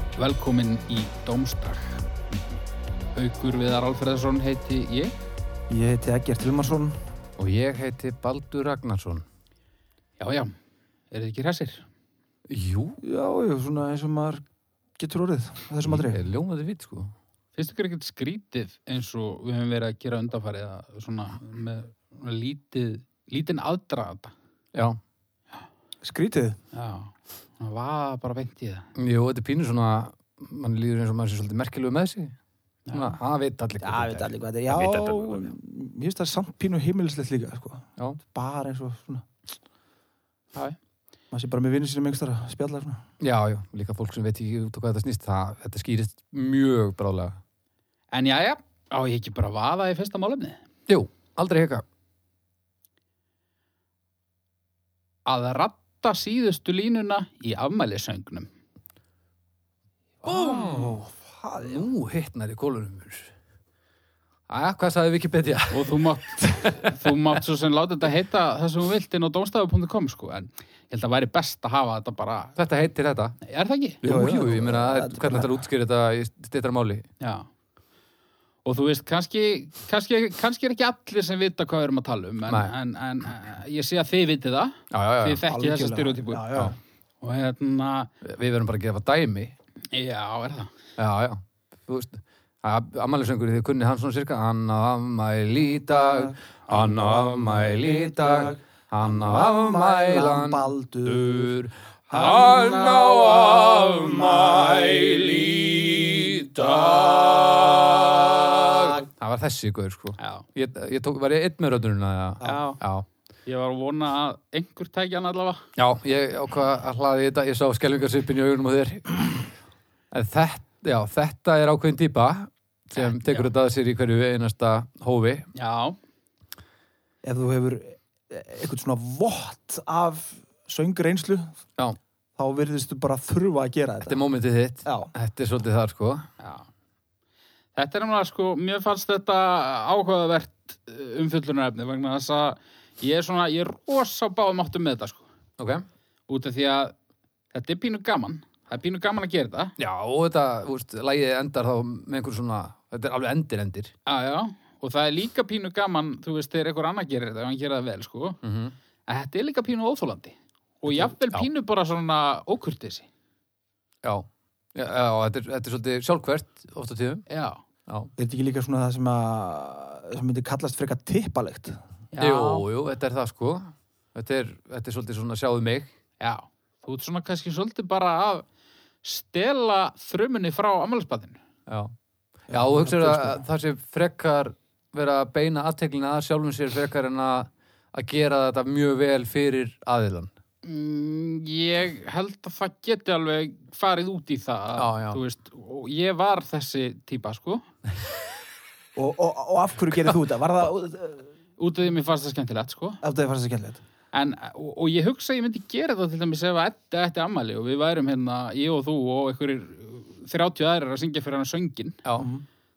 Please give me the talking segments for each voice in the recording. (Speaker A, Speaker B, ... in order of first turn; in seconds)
Speaker A: 0.2-2.0, 3.1-5.1, 10.2-10.5, 11.1-11.9, 17.5-24.3, 26.7-28.9, 32.9-33.2, 48.1-50.6, 55.2-58.5, 65.7-72.6, 73.4-74.0, 77.2-77.5, 78.6-86.7, 87.2-88.1, 89.9-90.7, 110.2-110.5, 112.4-112.8, 113.5-115.6, 123.0-123.5, 125.5-126.0, 136.4-136.7, 137.8-145.3, 146.3-146.9, 147.5-149.7, 154.1-158.4, 159.1-163.1, 167.3-167.6, 172.1-172.7, 176.2-178.4, 179.0-181.4, 190.6-197.7, 201.6-203.0, 204.1-212.0
Speaker B: 5.7-7.1, 13.0-14.4, 15.0-16.2, 26.0-26.6, 33.8-39.3, 41.3-43.0, 60.2-61.9, 74.0-75.7, 85.5-86.8, 99.0-101.5, 102.1-103.2, 104.2-104.5, 127.2-131.6, 132.4-134.2, 134.8-135.1, 168.2-171.8, 182.5-183.4, 198.9-201.3, 203.0-203.8, 212.2-212.4
Speaker C: 7.4-9.2, 12.5-13.0, 15.8-17.1, 24.7-25.0, 28.9-32.3, 32.9-35.4, 43.2-47.4, 50.9-51.8, 60.2-61.0, 61.6-63.3, 64.5-67.2, 72.6-73.4, 74.0-77.1, 82.5-82.7, 84.9-85.4, 88.2-89.5, 91.0-113.0, 115.8-119.5, 120.1-125.5, 134.0-136.3, 145.6-145.8, 149.8-153.9, 158.4-158.7, 160.9-161.5, 164.0-167.2, 167.9-168.1, 172.2-175.9, 181.7-181.9, 182.5-190.3, 194.8-195.2